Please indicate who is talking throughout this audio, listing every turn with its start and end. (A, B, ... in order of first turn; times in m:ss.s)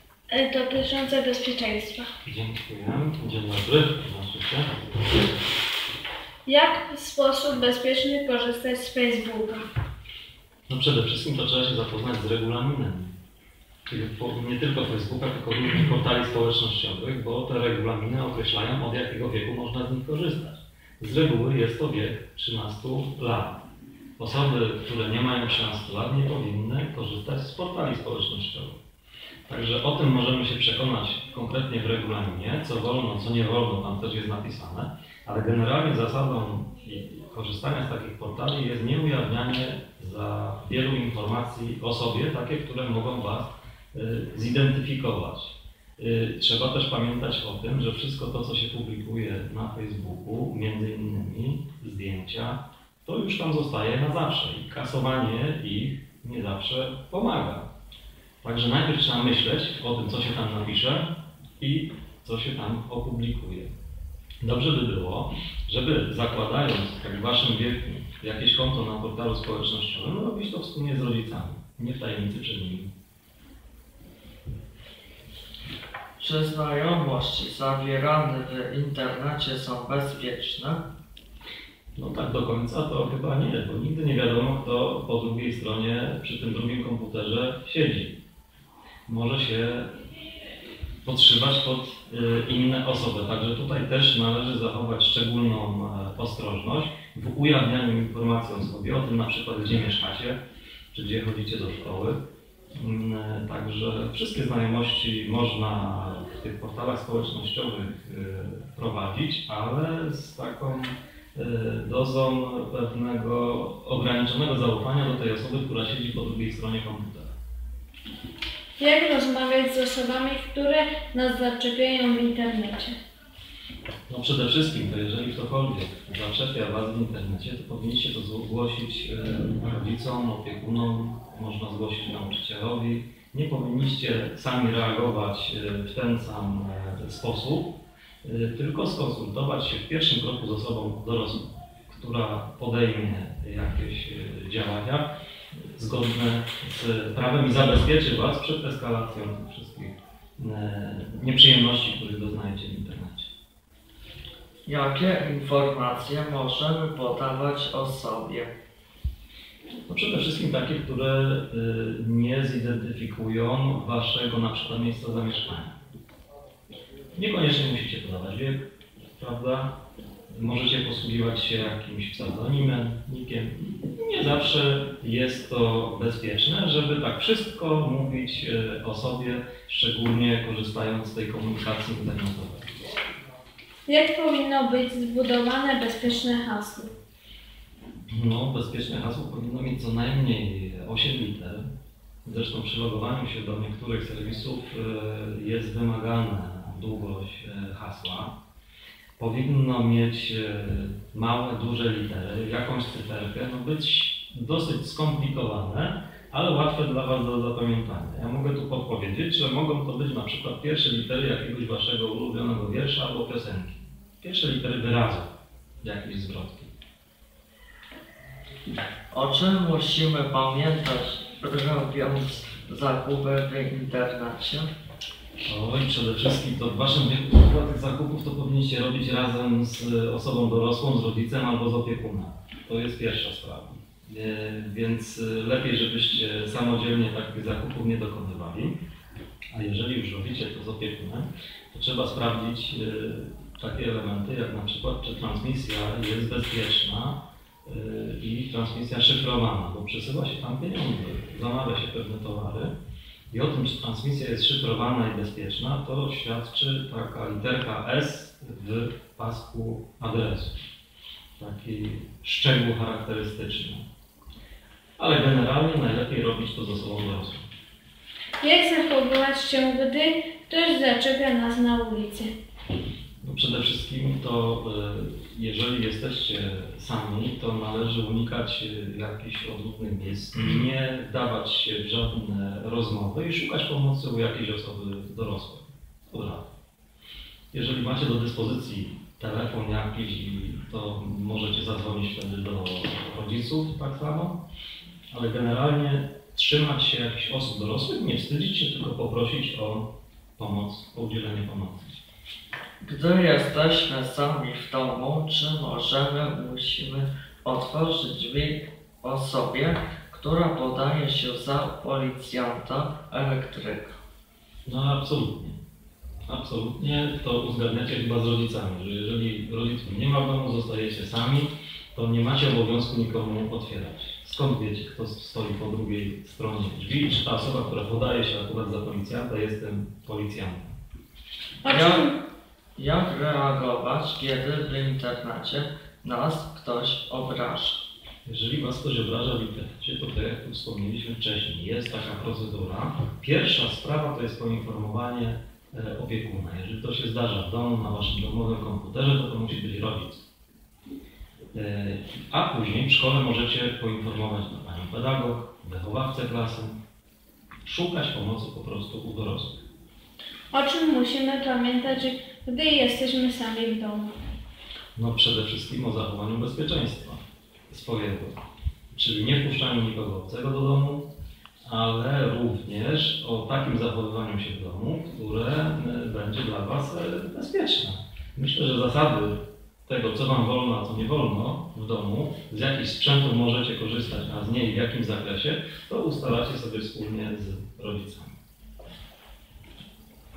0:00.3-0:02.1 A
0:02.2-0:04.8 B
0:06.4-0:09.6 A
0:10.7-0:13.1 B
0:13.9-0:23.6 B
0:24.2-0:28.8 B
0:29.5-0:57.7 B
0:58.4-1:03.7 B
1:04.4-1:12.9 B
1:16.2-1:20.8 C
1:22.0-1:28.2 B
1:29.1-1:29.9 B
1:31.0-1:40.4 B
1:40.9-1:42.2 B
1:42.7-1:57.3 B
1:58.8-2:03.0 A
2:04.1-2:33.3 B
2:34.6-2:38.5 C
2:39.9-2:45.7 B
2:47.1-2:49.8 B
2:50.3-3:02.7 B
3:03.9-3:06.9 A
3:08.1-3:11.6 B
3:12.2-3:18.3 B
3:19.2-3:35.3 B
3:35.8-3:36.7 B
3:39.1-3:44.7 C
3:45.4-3:58.8 B
3:59.5-4:12.7 B
4:13.3-4:20.6 B
4:21.4-4:23.8 B
4:25.0-4:27.5 B
4:28.4-4:32.3 A
4:33.2-4:46.5 B
4:47.5-4:54.4 B
4:55.1-5:02.0 B
5:02.8-5:14.0 C
5:14.6-5:15.6 B
5:16.3-5:30.8 B
5:31.6-5:32.2 A
5:31.6-5:32.1 C
5:32.8-5:37.8 C
5:38.2-5:50.2 B
5:51.5-5:56.8 B
5:57.6-5:59.6 B
6:00.5-6:04.1 A
6:05.0-6:08.4 B
6:08.9-6:11.0 B
6:11.6-6:28.4 B